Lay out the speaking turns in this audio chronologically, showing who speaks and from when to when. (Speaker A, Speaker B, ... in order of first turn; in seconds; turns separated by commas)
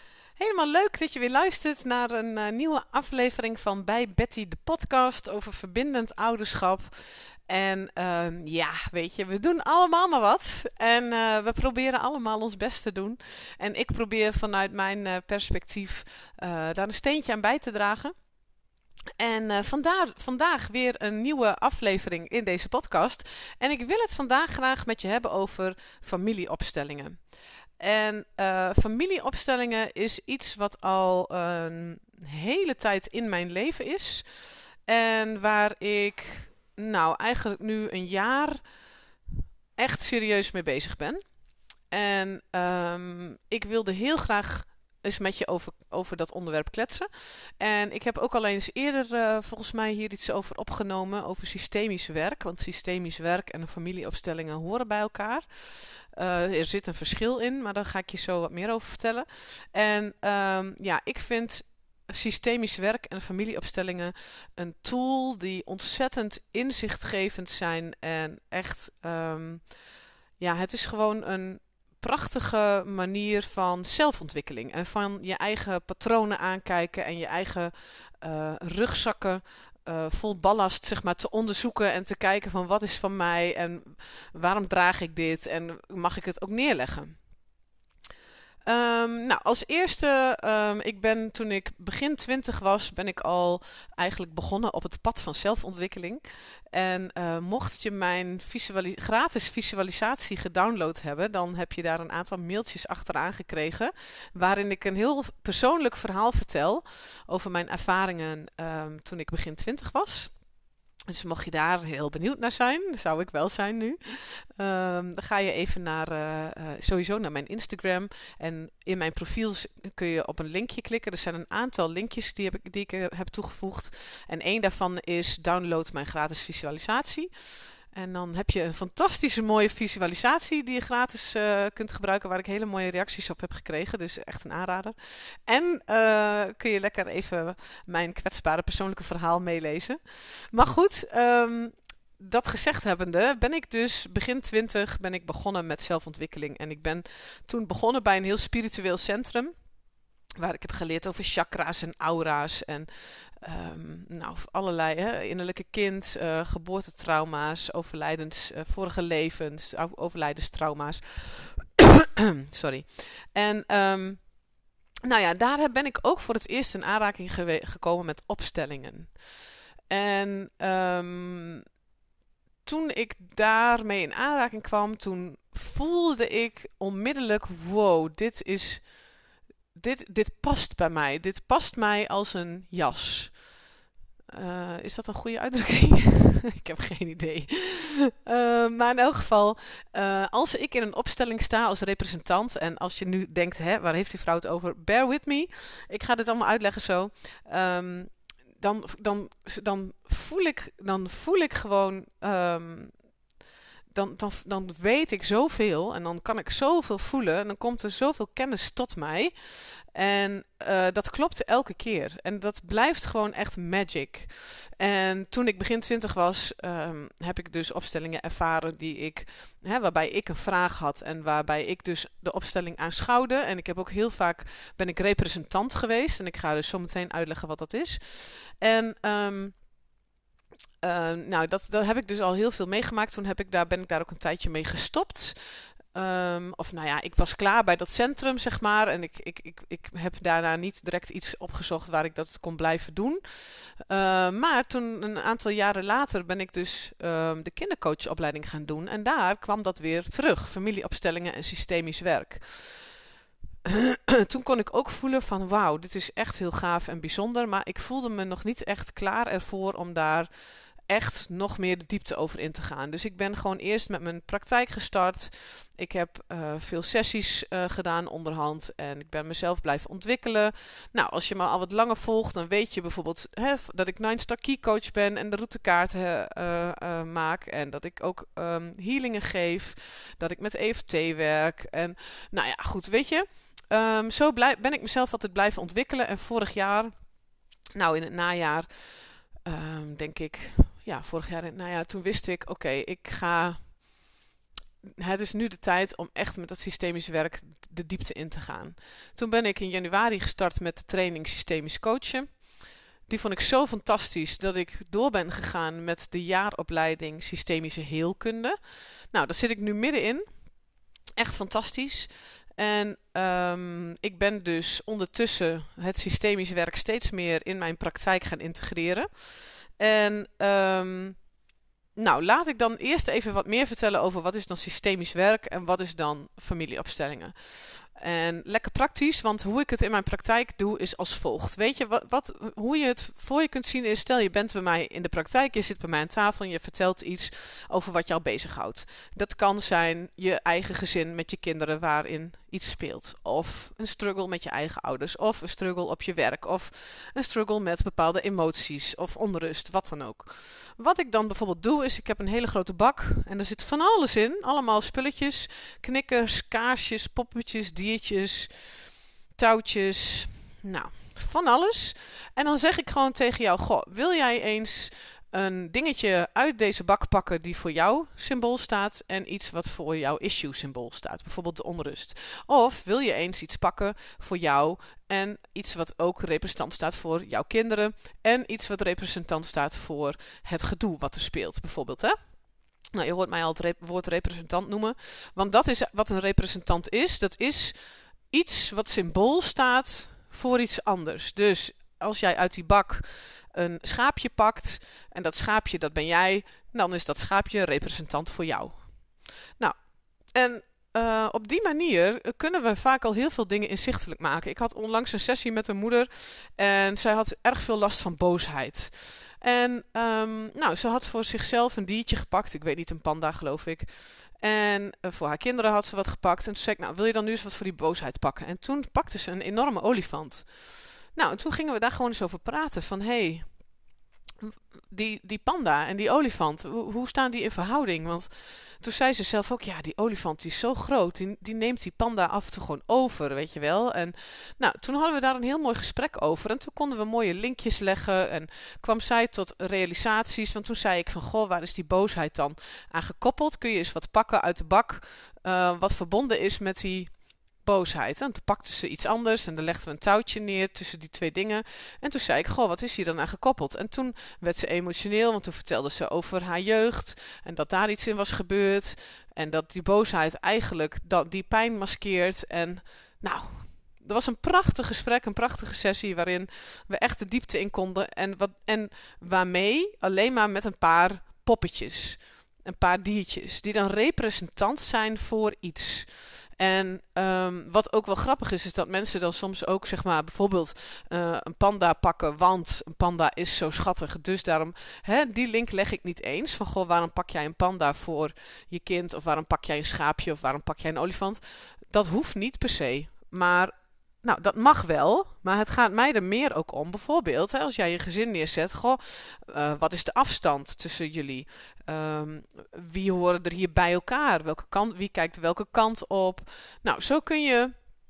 Speaker A: 0.4-18.1, Speaker A: 19.2-34.3, Speaker A: 34.9-38.7, Speaker A: 39.8-41.2, Speaker A: 41.9-69.8, Speaker A: 70.4-87.3, Speaker A: 88.6-110.4, Speaker A: 111.1-149.6, Speaker A: 150.4-164.3, Speaker A: 165.1-169.4, Speaker A: 169.9-171.6, Speaker A: 172.6-179.1, Speaker A: 179.7-183.5, Speaker A: 184.3-203.0, Speaker A: 203.9-229.6, Speaker A: 230.8-252.9, Speaker A: 253.7-260.3, Speaker A: 260.8-287.1, Speaker A: 287.8-293.8, Speaker A: 294.8-310.5, Speaker A: 311.2-321.3, Speaker A: 321.9-358.8, Speaker A: 359.3-382.4, Speaker A: 382.9-387.8, Speaker A: 388.3-399.8, Speaker A: 400.3-423.7, Speaker A: 424.4-507.7